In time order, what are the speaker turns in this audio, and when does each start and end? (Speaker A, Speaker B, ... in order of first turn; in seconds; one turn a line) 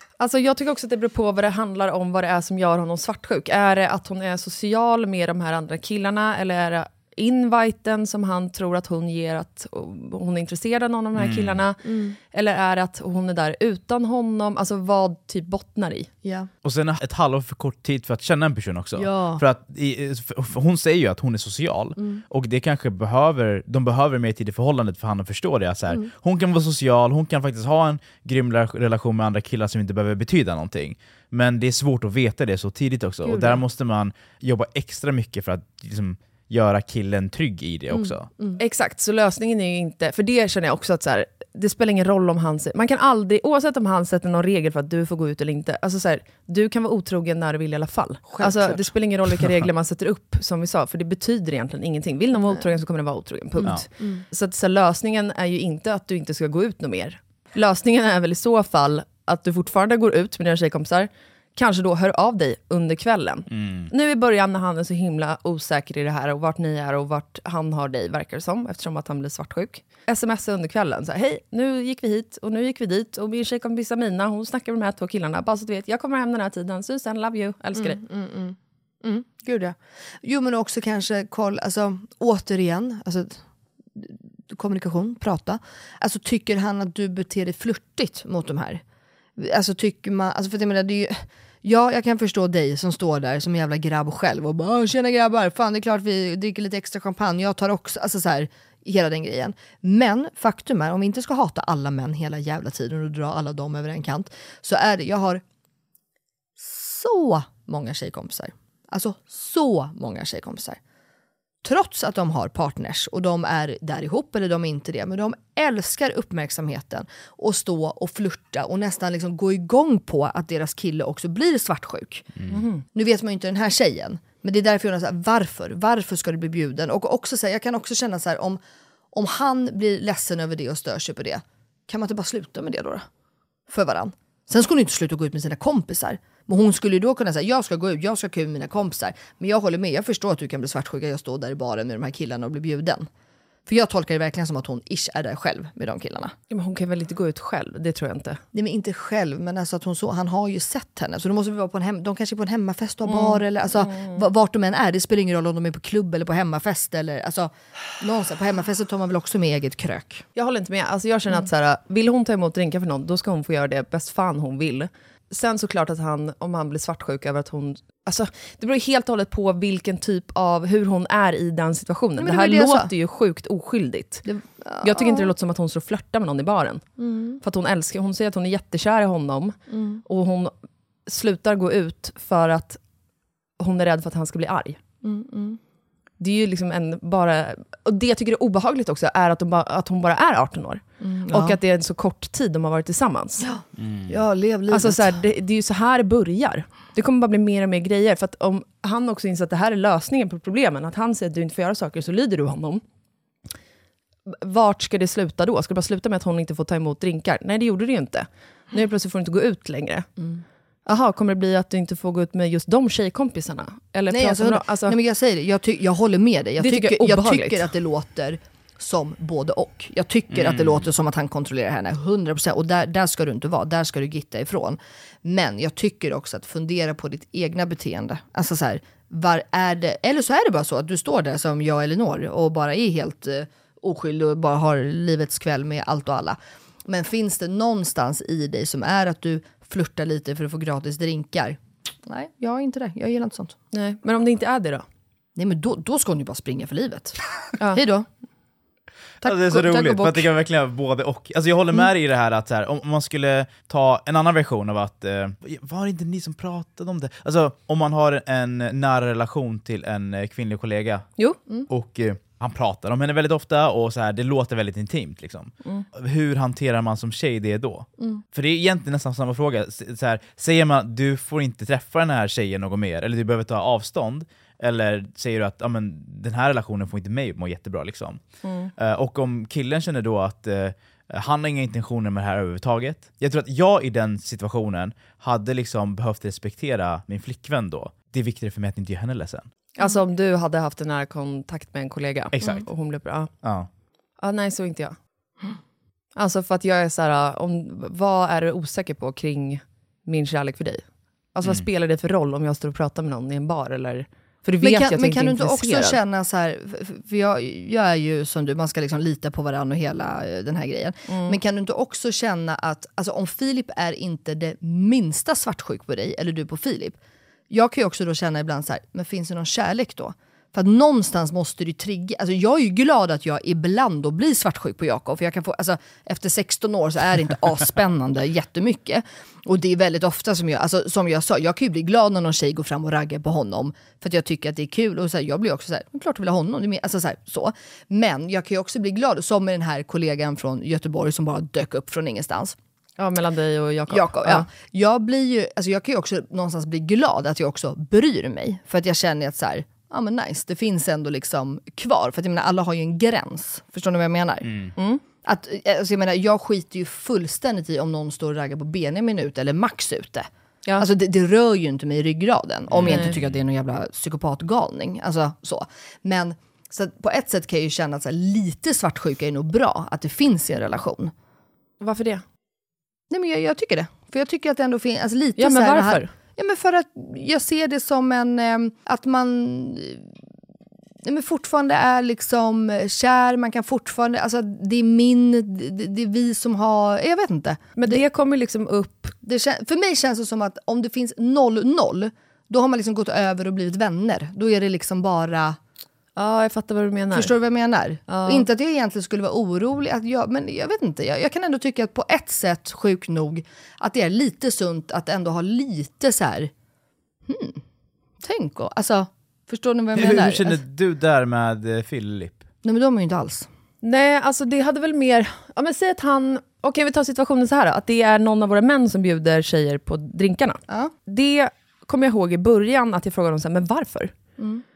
Speaker A: 0.2-16.1
Speaker B: 11.1-11.6
Speaker C: 11.8-12.2
Speaker C: 16.2-16.5
Speaker B: 16.6-38.3
Speaker C: 18.9-19.4
Speaker C: 37.9-38.6
Speaker A: 38.6-78.0
Speaker C: 48.3-48.9
Speaker C: 52.4-52.6
Speaker C: 53.6-54.2
Speaker B: 63.5-63.9
Speaker C: 77.8-83.4
Speaker C: 84.0-88.8
Speaker C: 89.4-105.4
Speaker C: 106.6-110.8
Speaker C: 111.6-122.3
Speaker A: 122.5-122.8
Speaker C: 122.9-128.6
Speaker C: 129.1-133.1
Speaker C: 133.7-143.1
Speaker C: 143.7-146.3
Speaker A: 146.5-148.4
Speaker C: 148.5-160.2
Speaker A: 153.1-154.2
Speaker A: 160.3-174.2
Speaker C: 172.2-172.9
Speaker C: 174.2-175.3
Speaker A: 174.8-180.5
Speaker C: 177.0-177.4
Speaker C: 179.7-180.0
Speaker A: 181.1-182.8
Speaker A: 183.6-184.8
Speaker C: 185.0-185.6
Speaker A: 186.2-193.4
Speaker C: 191.0-191.6
Speaker C: 193.4-195.2
Speaker B: 193.8-194.1
Speaker A: 194.7-202.8
Speaker A: 204.3-210.1
Speaker C: 210.2-210.4
Speaker A: 210.8-215.0
Speaker C: 214.1-243.6
Speaker A: 216.6-217.7
Speaker B: 220.3-220.9
Speaker A: 243.7-244.8
Speaker C: 245.3-247.2
Speaker C: 247.7-248.1
Speaker C: 249.2-250.2
Speaker B: 249.2-261.1
Speaker B: 261.7-278.2
Speaker A: 278.4-278.7
Speaker B: 278.8-289.4
Speaker A: 289.8-293.3
Speaker B: 292.4-292.6
Speaker B: 293.4-293.7
Speaker A: 294.2-294.9
Speaker A: 296.1-306.0
Speaker C: 304.6-317.0
Speaker A: 311.1-311.4
Speaker C: 317.5-342.6
Speaker A: 343.0-344.5
Speaker C: 343.9-354.5
Speaker B: 354.4-354.7
Speaker C: 355.2-371.1
Speaker B: 362.7-363.3
Speaker A: 362.9-363.1
Speaker A: 371.8-372.2
Speaker C: 373.1-380.1
Speaker A: 375.4-376.1
Speaker C: 381.0-388.0
Speaker A: 387.8-389.1
Speaker C: 389.2-395.6
Speaker A: 396.1-397.3
Speaker C: 397.1-406.5
Speaker A: 398.1-398.5
Speaker C: 407.3-407.6
Speaker C: 408.2-410.6
Speaker B: 409.9-412.4
Speaker C: 412.6-413.5
Speaker A: 413.8-424.1